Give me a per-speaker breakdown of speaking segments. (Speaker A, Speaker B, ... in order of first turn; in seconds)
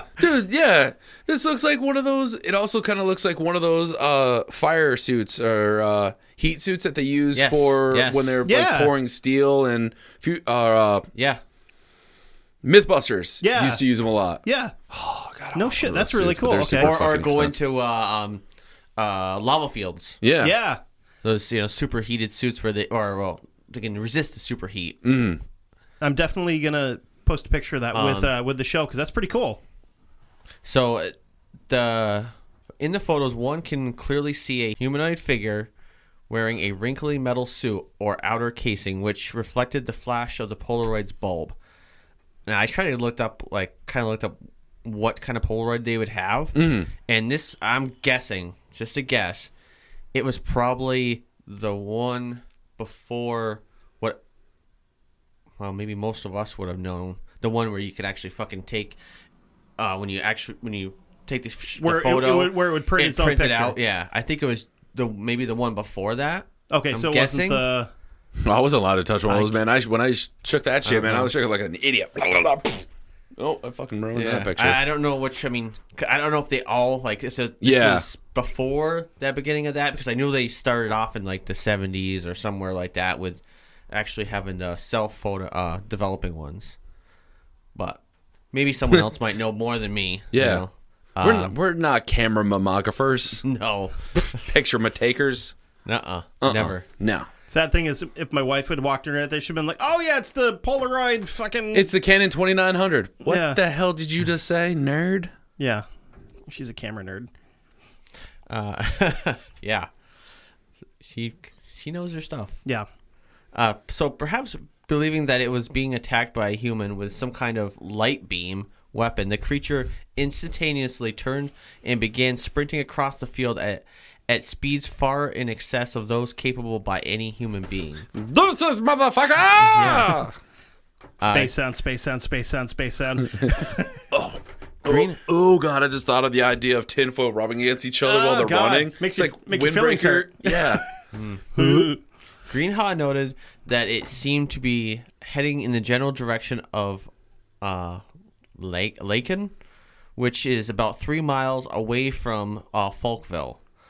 Speaker A: 0.2-11.1, 12.6-17.6, 20.2-20.5, 25.0-25.4, 46.5-46.9, 68.4-74.8, 77.6-78.0, 90.3-90.6, 91.2-93.4, 94.4-95.5, 96.4-97.3, 101.7-105.3, 128.1-130.3, 134.1-140.8
Speaker B: 7.3-8.4, 11.1-11.4, 16.8-18.4, 19.0-20.2, 21.2-25.1, 27.9-28.3, 30.6-31.1, 31.7-35.7, 36.3-41.5, 42.5-49.5, 50.1-54.2, 55.6-59.0, 59.8-67.6, 69.3-69.6, 70.8-71.3, 74.1-86.8, 87.7-88.0, 88.5-91.5, 93.4-94.5, 95.9-96.9, 108.5-109.9, 111.0-112.6, 113.5-128.1, 129.6-130.3, 131.2-131.5, 134.8-135.2, 141.1-141.7, 142.5-147.1, 147.6-148.0, 148.6-149.5, 150.2-153.6
Speaker C: 8.4-8.9, 13.4-13.8, 14.4-14.7, 15.5-16.9, 20.4-20.8, 26.0-29.6, 61.8-63.8, 66.7-67.9, 97.5-101.9, 103.2-103.6, 105.6-105.8, 106.5-107.3, 131.2-133.9, 138.0-140.9, 141.5-142.0